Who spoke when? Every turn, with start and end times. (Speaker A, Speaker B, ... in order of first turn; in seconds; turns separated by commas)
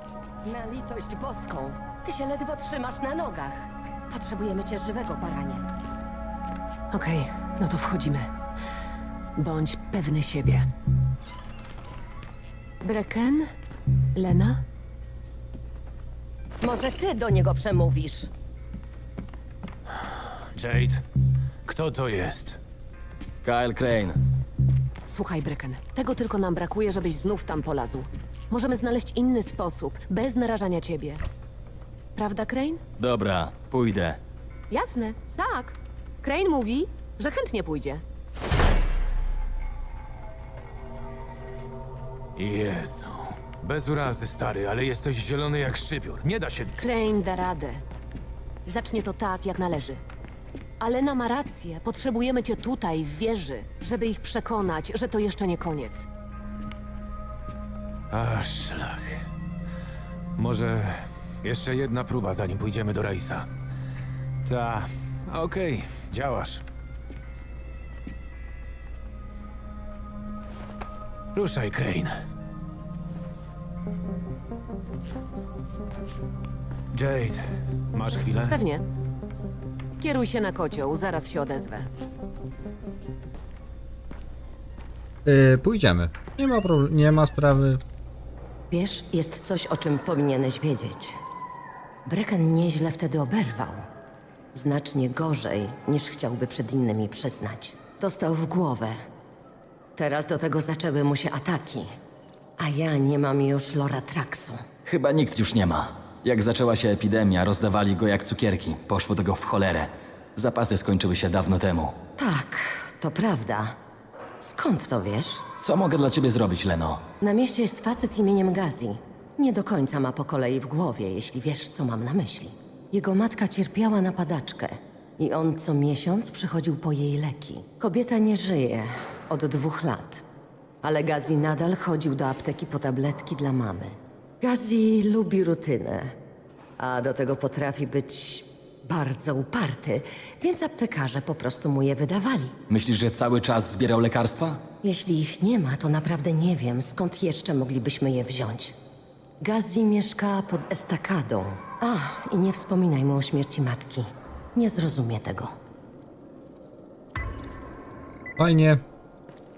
Speaker A: 0.4-5.7, Speaker B: 6.9-8.3, Speaker B: 9.4-10.7, Speaker B: 12.8-13.5, Speaker B: 14.1-14.6, Speaker A: 16.6-18.3, Speaker C: 20.5-21.0, Speaker C: 21.6-22.6, Speaker D: 23.4-24.2, Speaker B: 25.1-31.2, Speaker B: 32.1-32.8, Speaker D: 33.0-34.2, Speaker B: 34.7-38.0, Speaker C: 42.4-46.7, Speaker B: 46.8-47.8, Speaker B: 48.6-50.0, Speaker B: 50.8-56.0, Speaker C: 58.1-59.2, Speaker C: 60.4-63.5, Speaker C: 64.4-66.6, Speaker C: 71.3-72.2, Speaker C: 76.9-78.6, Speaker B: 78.5-78.9, Speaker B: 80.0-81.9, Speaker E: 85.2-87.8, Speaker A: 88.7-91.2, Speaker A: 92.0-93.8, Speaker A: 94.5-99.0, Speaker A: 100.0-101.9, Speaker A: 102.6-104.6, Speaker D: 104.8-112.0, Speaker A: 112.2-113.8, Speaker A: 114.4-115.5, Speaker D: 115.6-117.1, Speaker A: 117.2-130.2, Speaker A: 130.8-136.2, Speaker A: 136.8-142.5, Speaker D: 142.7-144.6, Speaker A: 144.8-148.7, Speaker A: 149.4-155.5, Speaker E: 158.4-158.8